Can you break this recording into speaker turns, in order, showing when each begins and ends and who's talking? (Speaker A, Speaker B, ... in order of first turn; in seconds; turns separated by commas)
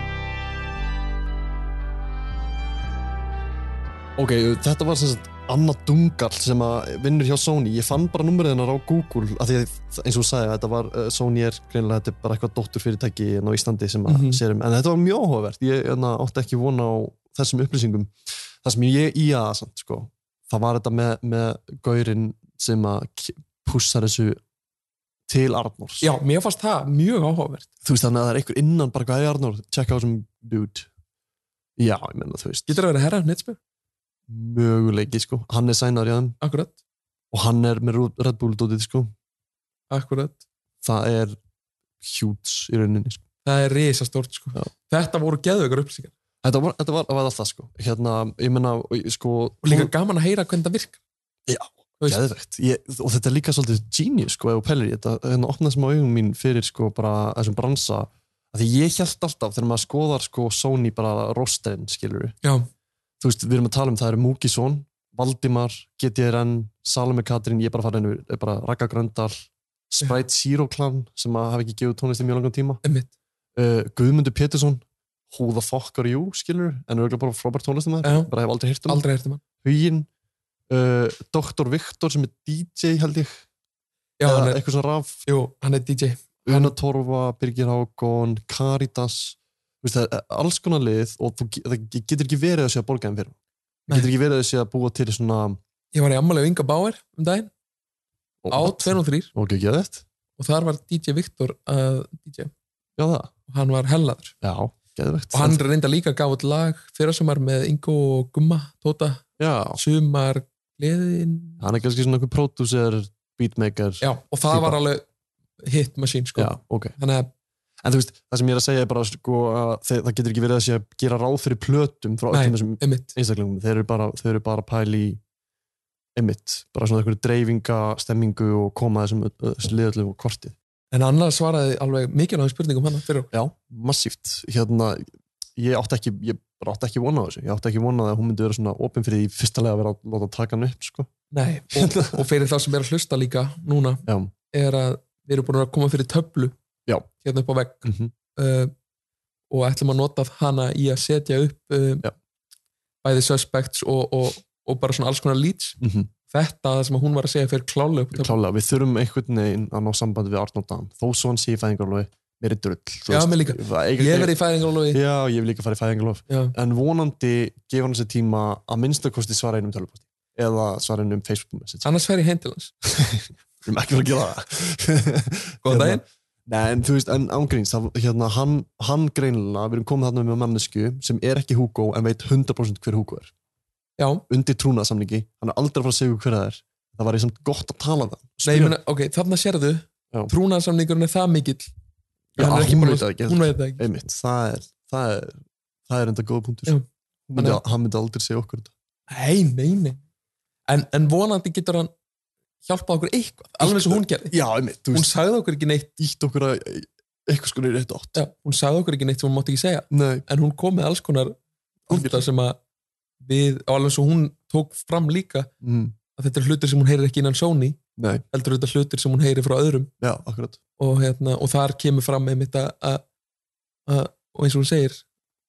Speaker A: 4.2-24.4, Speaker B: 14.1-14.4, Speaker A: 25.3-26.1, Speaker B: 26.0-27.7, Speaker A: 27.8-30.9, Speaker A: 31.8-32.8, Speaker B: 32.7-33.6, Speaker A: 34.3-36.4, Speaker B: 36.4-36.8, Speaker A: 37.3-39.1, Speaker B: 39.9-40.4, Speaker A: 40.8-41.4, Speaker A: 42.0-43.2, Speaker B: 43.5-46.1, Speaker A: 46.4-49.9, Speaker B: 49.6-51.0, Speaker A: 51.5-62.4, Speaker B: 62.4-62.7, Speaker A: 63.2-72.8, Speaker B: 72.8-73.1, Speaker A: 73.6-79.0, Speaker B: 78.0-78.3, Speaker B: 78.9-79.4, Speaker A: 79.6-80.1, Speaker A: 80.7-83.4, Speaker B: 84.2-84.6, Speaker A: 84.3-85.3, Speaker B: 85.3-86.7, Speaker A: 86.5-93.3, Speaker A: 93.9-95.6, Speaker B: 95.9-97.5, Speaker A: 98.4-100.0, Speaker B: 98.5-99.3, Speaker B: 100.4-102.5, Speaker A: 103.0-103.3, Speaker B: 103.5-104.3, Speaker A: 104.4-105.6, Speaker B: 105.3-111.6, Speaker A: 109.4-109.8, Speaker A: 111.6-114.8, Speaker B: 114.0-115.1, Speaker B: 115.6-117.3, Speaker A: 116.4-117.0, Speaker A: 117.8-125.2, Speaker B: 122.3-123.1, Speaker A: 126.2-130.6, Speaker B: 130.9-133.3, Speaker A: 133.3-135.1, Speaker A: 135.6-141.1, Speaker B: 141.3-146.6, Speaker A: 141.8-142.2, Speaker A: 144.1-144.3, Speaker B: 147.2-148.7, Speaker A: 147.8-148.1, Speaker B: 149.5-152.1, Speaker B: 153.0-155.8, Speaker A: 155.8-156.1, Speaker B: 156.3-158.4, Speaker A: 158.1-171.9, Speaker B: 163.1-165.0, Speaker B: 166.3-166.6, Speaker B: 171.8-172.7, Speaker A: 172.9-183.3, Speaker B: 175.6-176.0, Speaker B: 184.0-184.2, Speaker A: 184.3-188.8, Speaker B: 188.4-191.7, Speaker A: 192.4-196.8, Speaker B: 192.4-193.8, Speaker A: 197.3-198.7, Speaker B: 197.4-197.6, Speaker B: 199.1-200.0, Speaker B: 200.7-201.9, Speaker B: 202.6-204.3, Speaker A: 203.6-205.1, Speaker B: 204.9-205.9, Speaker A: 206.0-208.2, Speaker B: 208.2-211.4, Speaker A: 209.9-210.2, Speaker A: 211.9-212.2, Speaker B: 211.9-212.6, Speaker B: 213.2-215.5, Speaker A: 215.6-215.9, Speaker B: 216.2-217.8, Speaker A: 218.0-218.2, Speaker B: 218.3-219.9, Speaker A: 220.0-220.6, Speaker B: 220.8-223.0, Speaker B: 223.9-225.0